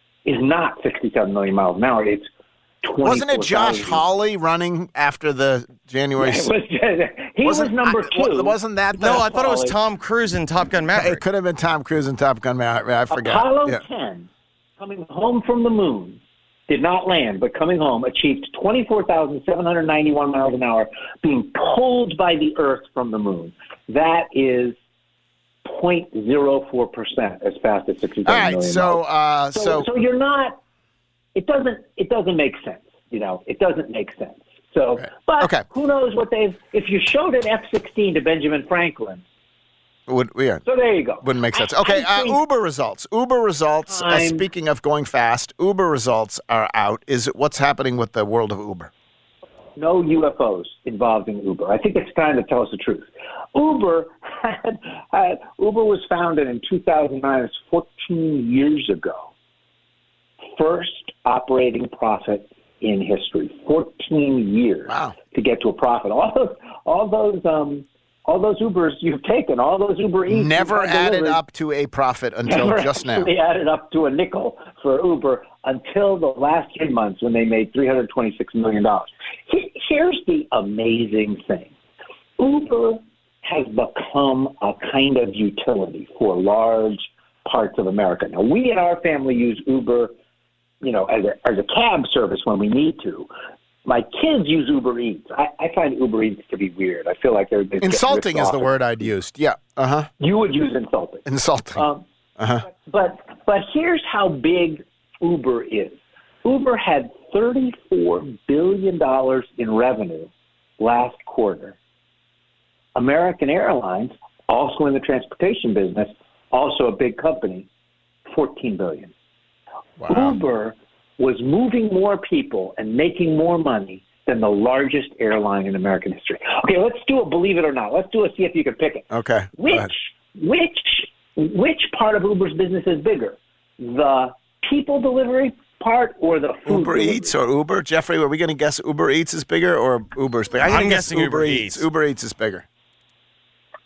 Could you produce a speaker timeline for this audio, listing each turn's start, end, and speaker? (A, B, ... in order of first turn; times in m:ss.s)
0:00.2-0:02.3 A
0:02.8-0:04.0 A
0:03.0-0:06.5 B
0:06.2-0:08.6 A
0:07.4-0:09.6 B
0:09.0-0:11.2 C
0:09.1-0:09.7 A
0:10.9-0:13.8 B
0:13.1-0:14.3 A
0:14.8-0:24.8 A
0:25.6-0:30.6 A
0:28.2-0:29.9 B
0:31.4-0:39.2 A
0:35.0-0:35.6 B
0:40.1-0:40.6 B
0:40.6-0:42.4 A
0:41.2-0:48.9 B
0:43.9-0:44.4 A
0:49.8-0:59.3 A
1:00.6-1:11.4 A
1:04.9-1:05.1 B
1:10.3-1:13.3 B
1:12.4-1:21.7 A
1:22.4-1:30.1 A
1:30.8-1:33.3 A
1:33.8-1:39.1 A
1:37.8-1:40.1 B
1:40.2-1:41.2 A
1:41.2-1:41.8 B
1:41.8-1:42.0 A
1:42.4-1:42.6 B
1:42.7-1:51.7 A
1:52.9-1:57.7 A
1:58.3-1:59.1 A
2:00.0-2:00.4 B
2:00.1-2:09.1 A
2:09.1-2:09.9 B
2:09.6-2:17.4 A
2:16.6-2:22.6 B
2:20.6-2:21.8 C